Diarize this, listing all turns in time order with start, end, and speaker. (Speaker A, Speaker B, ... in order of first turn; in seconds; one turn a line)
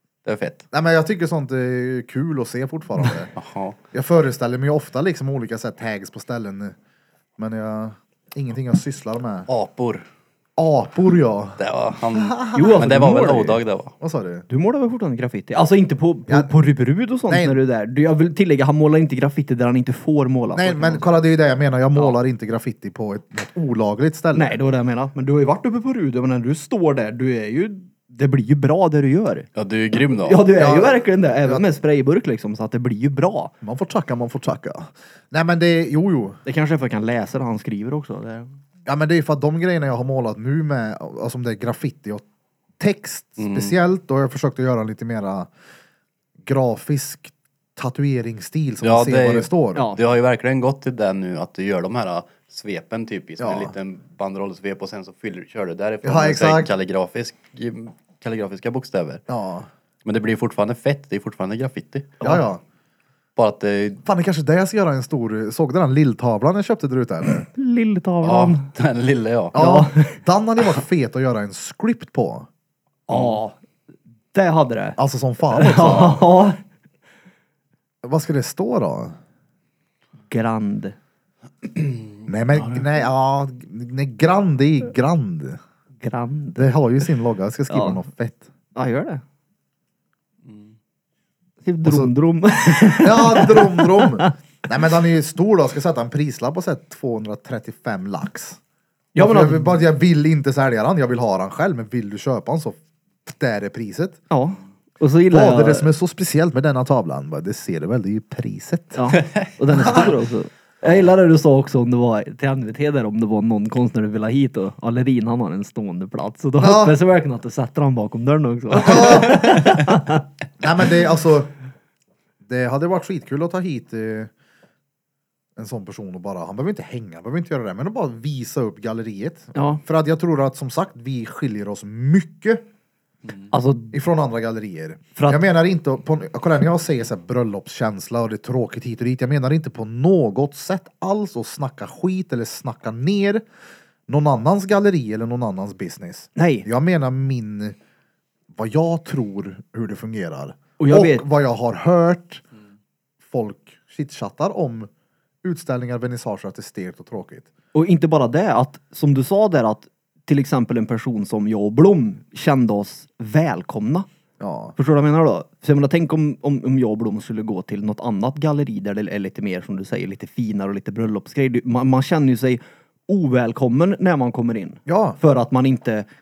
Speaker A: 0.2-0.6
Speaker B: 0.7-3.3
Speaker A: 3.3-3.8
Speaker B: 3.9-6.8
Speaker B: 7.4-9.5
Speaker A: 9.5-10.1
Speaker B: 10.6-11.6
Speaker A: 11.6-13.9
Speaker B: 12.1-13.5
Speaker C: 12.6-13.6
Speaker B: 14.0-14.4
Speaker C: 14.5-21.0
Speaker B: 17.3-17.6
Speaker B: 20.5-24.6
Speaker C: 24.3-29.5
Speaker A: 29.6-30.5
Speaker C: 30.2-33.5
Speaker B: 30.6-31.6
Speaker B: 33.6-36.4
Speaker C: 36.5-38.5
Speaker B: 38.9-42.2
Speaker B: 42.8-45.5
Speaker A: 43.4-43.8
Speaker B: 46.4-49.8
Speaker A: 48.8-59.2
Speaker B: 53.4-53.7
Speaker B: 56.0-56.7
Speaker B: 59.3-59.7
Speaker A: 60.0-62.2
Speaker B: 62.2-62.6
Speaker A: 63.4-64.0
Speaker B: 64.0-67.5
Speaker C: 67.5-68.7
Speaker A: 68.2-69.5
Speaker B: 69.5-72.5
Speaker C: 69.5-70.2
Speaker C: 73.1-73.6
Speaker A: 73.1-73.4
Speaker C: 74.3-75.0
Speaker B: 75.0-76.2
Speaker C: 75.5-76.6
Speaker B: 78.0-79.2
Speaker C: 80.3-81.0
Speaker A: 81.7-82.8
Speaker B: 82.3-85.6
Speaker C: 86.0-86.7
Speaker B: 86.6-88.5
Speaker C: 87.7-88.0
Speaker C: 88.8-89.2
Speaker A: 90.5-90.7
Speaker C: 91.6-94.3
Speaker B: 91.8-92.1
Speaker B: 93.0-98.6
Speaker C: 99.2-99.8
Speaker B: 99.2-104.2
Speaker C: 104.3-105.9
Speaker B: 105.3-109.1
Speaker C: 109.0-120.2
Speaker B: 109.7-110.1
Speaker B: 116.6-117.0
Speaker B: 118.8-119.7
Speaker B: 120.6-121.5
Speaker B: 122.4-124.3
Speaker B: 125.6-132.6
Speaker C: 129.6-129.8
Speaker C: 133.5-133.9
Speaker B: 133.9-143.4
Speaker C: 135.2-135.4
Speaker B: 144.1-147.8
Speaker C: 146.4-146.7
Speaker B: 148.6-152.4
Speaker C: 150.8-151.3
Speaker B: 153.3-154.9
Speaker B: 155.4-157.5
Speaker C: 157.7-164.1
Speaker B: 164.4-164.8
Speaker C: 164.8-176.1
Speaker B: 174.9-175.2